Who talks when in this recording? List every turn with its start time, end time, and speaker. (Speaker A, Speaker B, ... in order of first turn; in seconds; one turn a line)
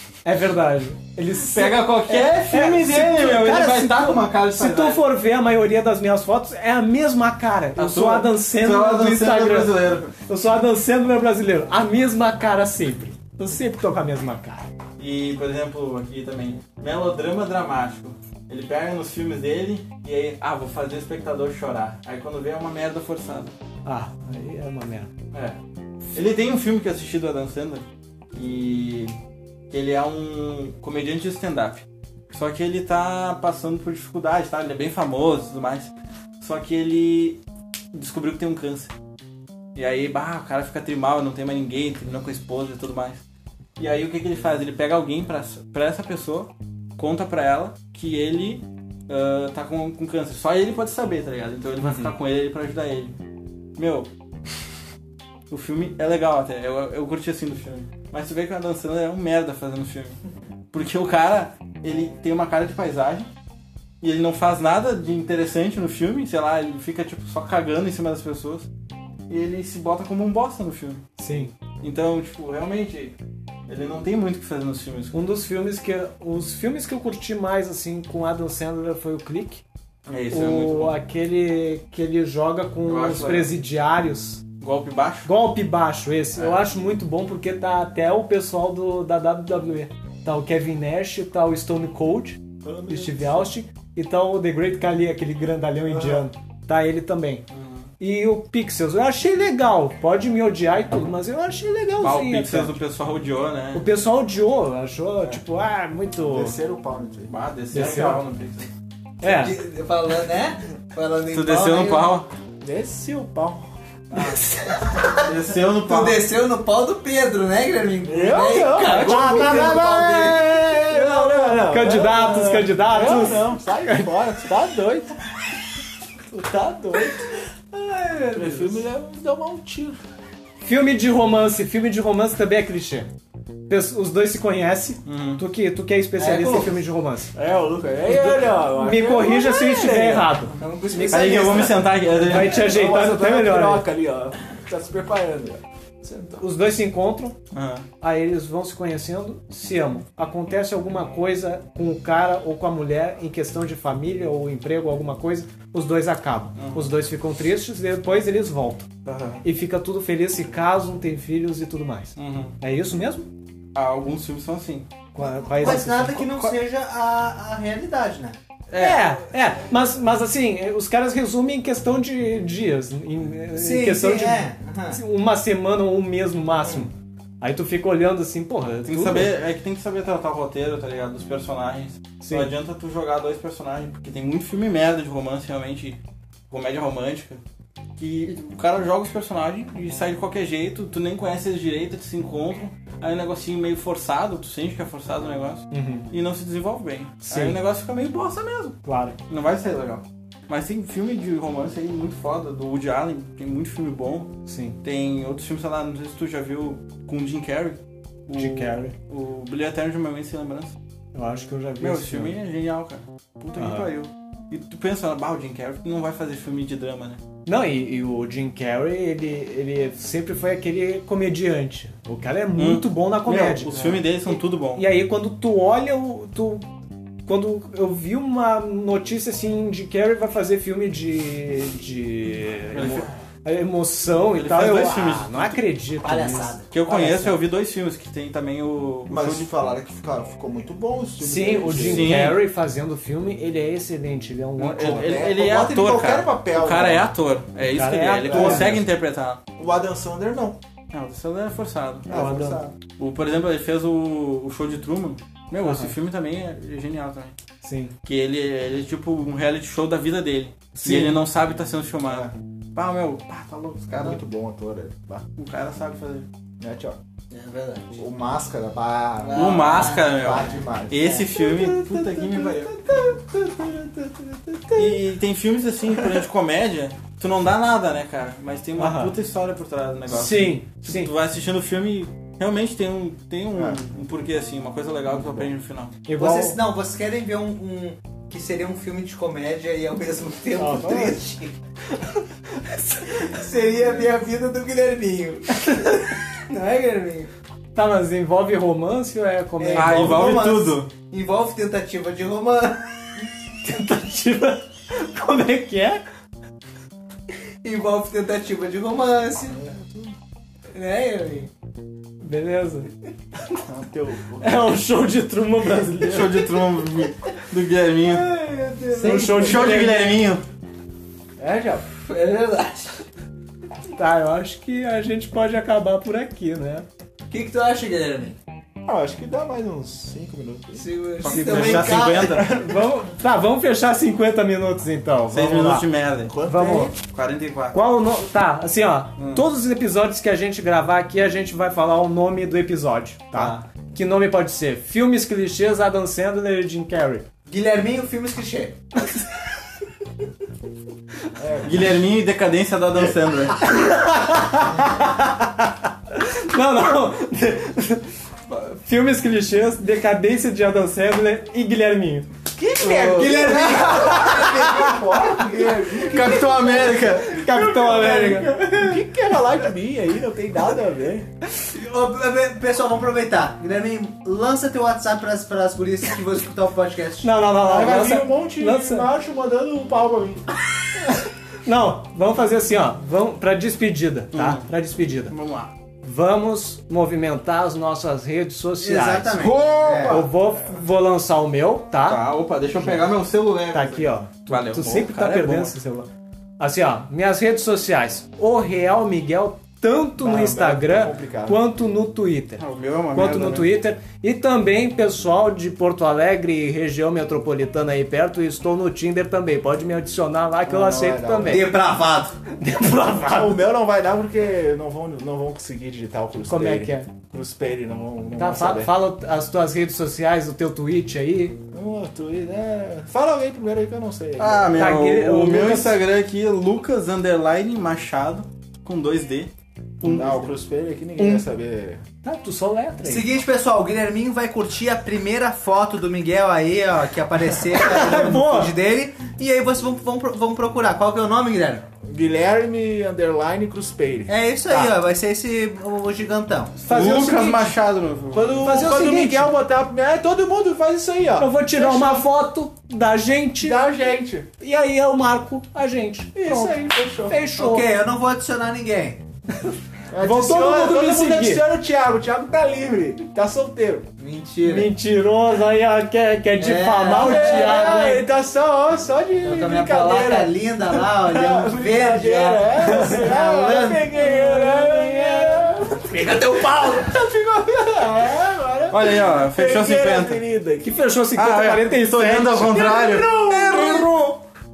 Speaker A: 0.2-14.7
Speaker B: 1.5-5.0
Speaker B: 7.8-10.1
Speaker B: 15.0-23.6
Speaker A: 23.9-25.1
Speaker B: 25.3-25.6
Speaker B: 26.1-29.1
Speaker B: 29.7-37.4
Speaker B: 37.9-38.9
Speaker B: 39.8-43.2
Speaker B: 43.8-53.2
Speaker A: 51.8-52.1
Speaker B: 53.8-54.1
Speaker B: 55.5-60.2
Speaker B: 60.7-63.3
Speaker B: 64.0-68.7
Speaker B: 69.3-71.1
Speaker A: 71.2-71.5
Speaker B: 71.8-73.2
Speaker B: 73.7-75.2
Speaker A: 75.1-79.6
Speaker B: 80.1-81.0
Speaker A: 80.3-84.4
Speaker B: 82.8-83.5
Speaker B: 84.6-85.3
Speaker A: 85.2-97.4
Speaker B: 86.3-86.7
Speaker C: 92.6-93.5
Speaker C: 95.9-96.2
Speaker B: 97.5-97.9
Speaker A: 98.0-102.8
Speaker B: 102.0-103.8
Speaker A: 103.7-106.6
Speaker C: 106.3-107.3
Speaker B: 107.3-108.7
Speaker A: 107.7-108.2
Speaker A: 109.2-109.6
Speaker D: 109.2-112.2
Speaker B: 111.3-112.3
Speaker C: 112.6-113.7
Speaker D: 114.1-120.8
Speaker B: 115.2-116.2
Speaker C: 118.1-125.2
Speaker A: 118.9-120.1
Speaker A: 120.9-124.1
Speaker C: 126.3-127.3
Speaker D: 127.7-128.8
Speaker C: 128.3-130.0
Speaker A: 130.6-133.1
Speaker A: 133.7-137.3
Speaker B: 135.1-135.4
Speaker D: 136.2-136.8
Speaker C: 137.3-140.4
Speaker A: 138.1-143.9
Speaker D: 140.6-142.0
Speaker B: 141.1-142.7
Speaker C: 142.3-146.4
Speaker A: 146.4-147.4
Speaker B: 147.5-147.9
Speaker A: 148.0-158.9
Speaker B: 156.6-156.9
Speaker B: 159.1-159.4
Speaker A: 159.4-163.3
Speaker B: 162.2-162.6
Speaker B: 163.8-164.9
Speaker A: 165.2-166.2
Speaker D: 165.2-168.4
Speaker B: 165.6-166.5
Speaker B: 168.7-169.1
Speaker A: 168.7-179.3
Speaker D: 173.5-175.0
Speaker B: 178.9-187.4
Speaker A: 182.2-182.5
Speaker B: 188.0-210.8
Speaker A: 195.7-196.1
Speaker A: 197.2-197.6
Speaker A: 198.8-199.2
Speaker A: 204.5-204.8
Speaker A: 208.3-208.9
Speaker A: 211.1-212.3
Speaker B: 211.8-217.2
Speaker A: 213.6-213.9
Speaker A: 217.5-223.7
Speaker B: 222.6-224.9
Speaker A: 224.8-226.7
Speaker A: 227.3-237.4
Speaker B: 232.7-233.1
Speaker B: 234.3-235.6
Speaker D: 236.0-236.7
Speaker B: 236.7-239.5
Speaker C: 239.1-242.2
Speaker A: 241.2-245.3
Speaker B: 241.7-242.4
Speaker B: 244.6-249.4
Speaker C: 244.9-247.1
Speaker A: 247.7-248.8
Speaker C: 248.3-248.9
Speaker C: 249.6-250.6
Speaker B: 250.9-252.2
Speaker C: 252.1-252.8
Speaker A: 252.1-252.6
Speaker B: 253.0-257.4
Speaker A: 255.6-255.9
Speaker A: 257.6-257.9
Speaker B: 258.0-264.2
Speaker A: 260.8-261.2
Speaker C: 262.1-262.3
Speaker C: 263.9-265.2
Speaker B: 265.4-266.3
Speaker C: 266.6-267.0
Speaker D: 267.3-268.1
Speaker C: 268.0-274.8
Speaker D: 269.2-271.2
Speaker B: 269.3-272.7
Speaker B: 274.8-286.0
Speaker A: 278.8-279.1
Speaker A: 280.1-281.1
Speaker C: 283.6-283.8
Speaker C: 285.1-285.5
Speaker A: 286.1-286.6
Speaker D: 286.2-291.6
Speaker A: 290.6-291.2
Speaker A: 292.6-293.4
Speaker D: 293.2-297.3
Speaker A: 297.8-300.4
Speaker D: 299.6-302.8
Speaker B: 299.7-300.9
Speaker A: 303.6-306.0
Speaker D: 307.6-309.6
Speaker C: 309.6-310.1
Speaker D: 310.7-311.5
Speaker A: 312.2-312.9
Speaker C: 313.7-314.7
Speaker A: 314.4-316.5
Speaker B: 316.0-318.3
Speaker D: 318.0-319.8
Speaker A: 319.0-320.1
Speaker B: 319.1-320.4
Speaker C: 321.4-321.9
Speaker D: 322.0-323.0
Speaker A: 323.9-326.9
Speaker D: 327.3-328.4
Speaker C: 328.9-332.6
Speaker D: 330.8-332.4
Speaker B: 331.2-332.5
Speaker A: 331.5-335.9
Speaker B: 335.3-336.3
Speaker C: 336.3-337.0
Speaker A: 336.5-336.9
Speaker B: 337.1-337.8
Speaker A: 337.7-347.3
Speaker B: 339.2-339.4
Speaker D: 347.5-348.8
Speaker C: 351.4-352.0
Speaker B: 351.6-353.6
Speaker A: 353.7-362.3
Speaker C: 362.6-371.3
Speaker D: 362.8-366.9
Speaker B: 363.2-363.6
Speaker B: 366.0-367.4
Speaker A: 367.0-369.0
Speaker D: 371.7-377.4
Speaker A: 377.2-379.1
Speaker C: 377.6-380.4
Speaker A: 381.6-385.4
Speaker B: 384.3-384.7
Speaker B: 385.3-385.7
Speaker A: 386.0-389.4
Speaker D: 388.8-390.2
Speaker C: 389.4-390.3
Speaker A: 390.1-392.3
Speaker B: 392.0-395.8
Speaker A: 393.7-396.1
Speaker A: 396.6-402.6
Speaker C: 400.2-401.6
Speaker B: 402.6-403.7
Speaker A: 403.1-411.7
Speaker C: 410.6-411.7
Speaker D: 411.4-412.4
Speaker A: 412.5-413.6
Speaker C: 413.3-418.9
Speaker A: 416.5-417.1
Speaker A: 418.4-421.6
Speaker C: 421.7-424.8
Speaker B: 424.4-430.5
Speaker A: 424.8-426.0
Speaker C: 430.0-432.0
Speaker A: 431.2-431.4
Speaker A: 432.2-433.3
Speaker D: 433.0-441.9
Speaker A: 437.7-438.7
Speaker C: 442.1-444.9
Speaker D: 444.3-446.8
Speaker B: 446.8-448.6
Speaker A: 446.9-447.7
Speaker C: 448.3-452.3
Speaker A: 448.6-449.5
Speaker A: 451.4-453.8
Speaker C: 453.6-454.5
Speaker A: 454.6-457.9
Speaker C: 456.4-457.4
Speaker D: 457.6-459.2
Speaker C: 460.1-464.1
Speaker A: 460.2-461.6
Speaker D: 464.2-464.9
Speaker A: 464.6-468.2
Speaker D: 466.6-468.0
Speaker C: 467.1-481.0
Speaker D: 469.4-474.2
Speaker A: 472.8-473.4
Speaker A: 474.1-475.8
Speaker D: 476.1-477.2
Speaker B: 478.9-480.4
Speaker A: 480.8-483.0
Speaker B: 481.3-483.5
Speaker C: 482.6-484.1
Speaker D: 483.2-484.1
Speaker A: 483.7-484.1